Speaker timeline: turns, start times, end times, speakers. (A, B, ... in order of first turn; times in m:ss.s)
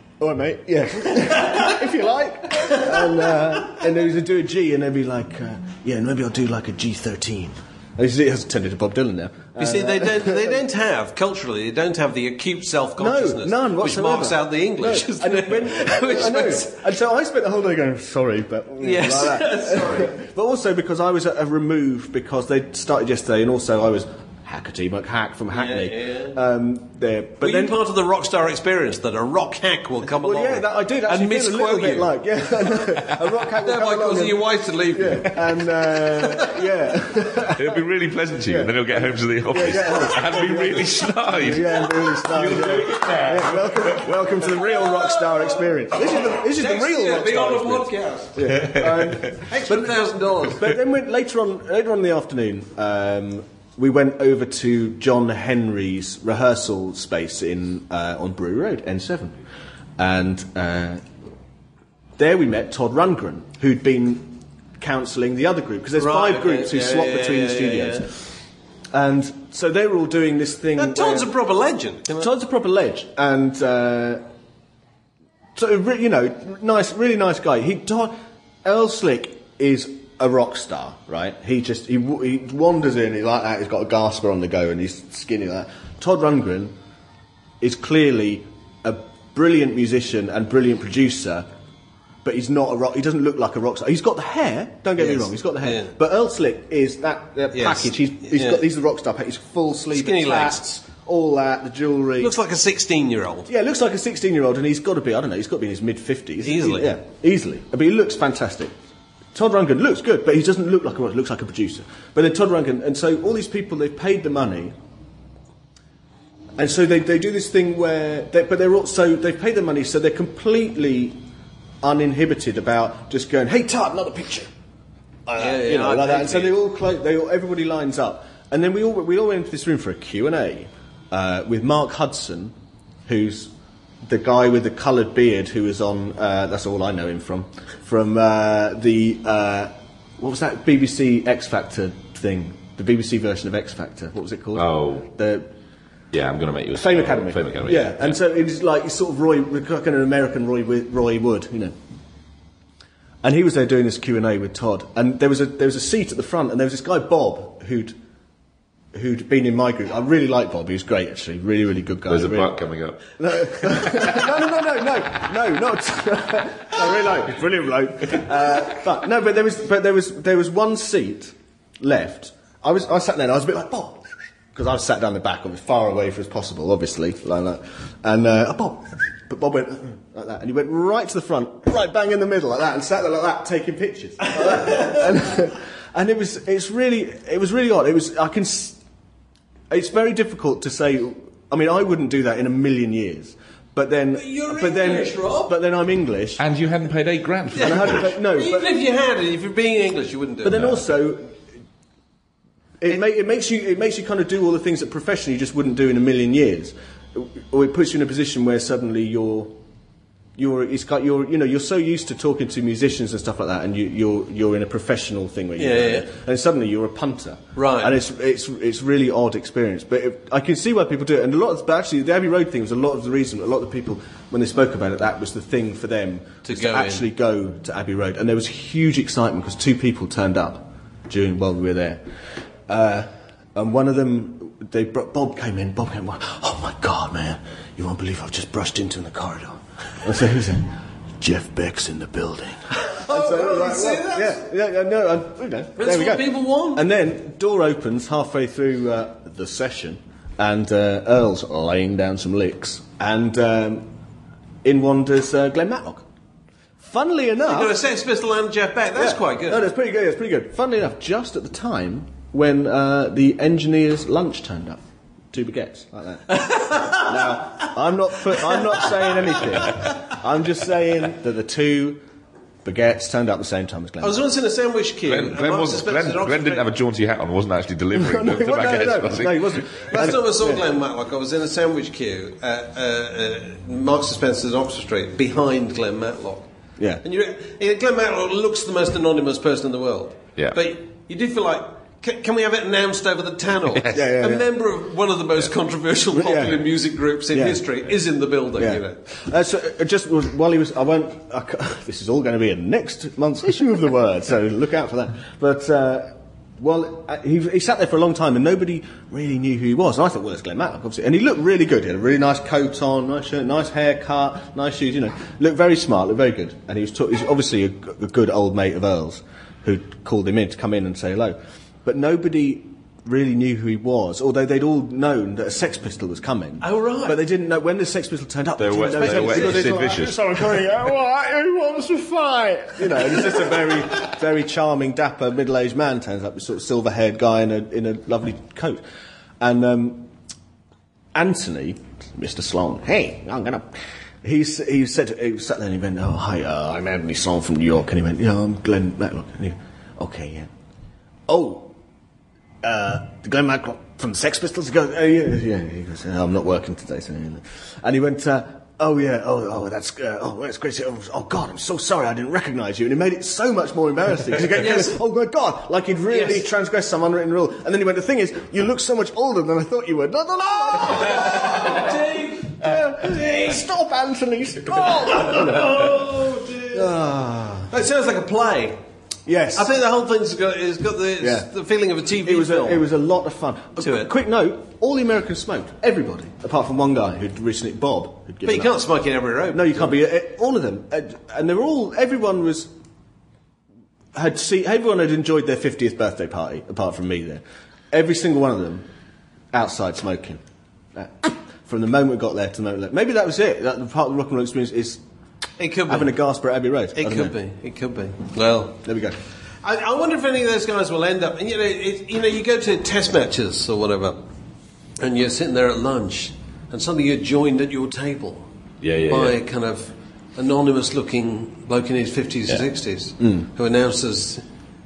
0:00.2-0:10.6 A
0:09.6-0:16.8 B
0:13.0-0:27.8 A
0:18.8-0:20.2 B
0:25.5-0:26.4 B
0:27.4-0:32.1 B
0:30.2-0:37.8 A
0:33.6-0:36.7 B
0:37.6-0:44.2 C
0:38.5-0:39.0 A
0:39.5-0:50.0 A
0:44.4-0:48.4 B
0:48.5-0:49.3 C
0:49.4-0:50.7 B
0:50.5-0:59.4 A
1:00.0-1:01.0 A
1:02.2-1:08.1 A
1:06.0-1:08.1 B
1:08.9-1:11.3 A
1:10.8-1:12.3 B
1:12.2-1:14.2 A
1:15.6-1:26.7 A
1:27.6-1:31.5 A
1:32.2-1:42.3 A
1:35.0-1:35.9 B
1:37.5-1:38.6 B
1:39.9-1:40.6 B
1:42.2-1:43.5 B
1:43.5-1:48.7 A
1:46.4-1:46.9 B
1:49.3-1:54.7 A
1:56.6-2:01.2 A
2:01.8-2:04.5 A
2:05.3-2:12.5 A
2:05.4-2:06.6 B
2:13.1-2:13.5 A
2:14.0-2:25.5 A
2:24.6-2:25.1 C
2:26.1-2:28.2 C
2:26.8-2:31.8 A
2:33.2-2:38.0 A
2:38.9-2:42.5 A
2:42.1-2:43.1 C
2:43.2-3:08.8 A
2:43.7-2:44.0 C
3:09.7-3:16.4 A
3:14.1-3:15.6 B
3:16.4-3:18.0 C
3:17.6-3:20.6 B
3:17.6-3:18.7 A
3:20.4-3:21.3 A
3:22.8-3:29.6 A
3:30.4-3:52.0 A
3:35.6-3:36.1 B
3:37.6-3:38.0 B
3:46.4-3:47.1 B
3:52.7-4:13.9 A
4:02.9-4:04.4 B
4:05.8-4:06.8 B
4:14.6-4:16.0 A
4:16.8-4:17.8 A
4:17.4-4:19.6 B
4:19.0-4:32.0 A
4:26.4-4:27.0 B
4:32.6-4:34.2 A
4:34.0-4:36.7 B
4:35.0-4:39.6 C
4:37.9-4:40.6 A
4:39.9-4:46.5 B
4:47.0-4:59.0 B
4:53.9-4:54.5 A
4:56.1-4:56.6 A
4:57.3-4:57.6 A
4:58.6-5:38.8 A
5:26.6-5:27.2 B
5:28.6-5:30.4 C
5:39.4-5:40.1 A
5:41.2-5:43.7 A
5:44.2-5:50.5 A
5:51.3-5:51.7 A
5:52.6-6:12.0 A
6:04.6-6:05.0 B
6:06.1-6:06.4 B
6:10.8-6:13.6 B
6:12.6-6:15.9 A
6:14.7-6:16.9 B
6:16.7-6:17.7 A
6:17.7-6:18.8 B
6:19.3-6:19.7 A
6:19.6-6:22.8 B
6:21.2-6:21.5 A
6:22.2-6:28.8 A
6:23.8-6:24.1 B
6:28.4-6:30.0 B
6:29.5-6:32.7 A
6:34.2-6:38.9 A
6:39.5-6:40.4 A
6:41.0-6:45.0 A
6:45.6-6:46.1 B
6:45.9-6:47.3 A
6:47.0-6:48.8 B
6:48.8-6:49.2 A
6:49.6-6:54.2 B
6:55.0-6:58.5 B
6:58.8-6:59.4 C
6:59.1-7:04.4 B
7:03.2-7:03.5 A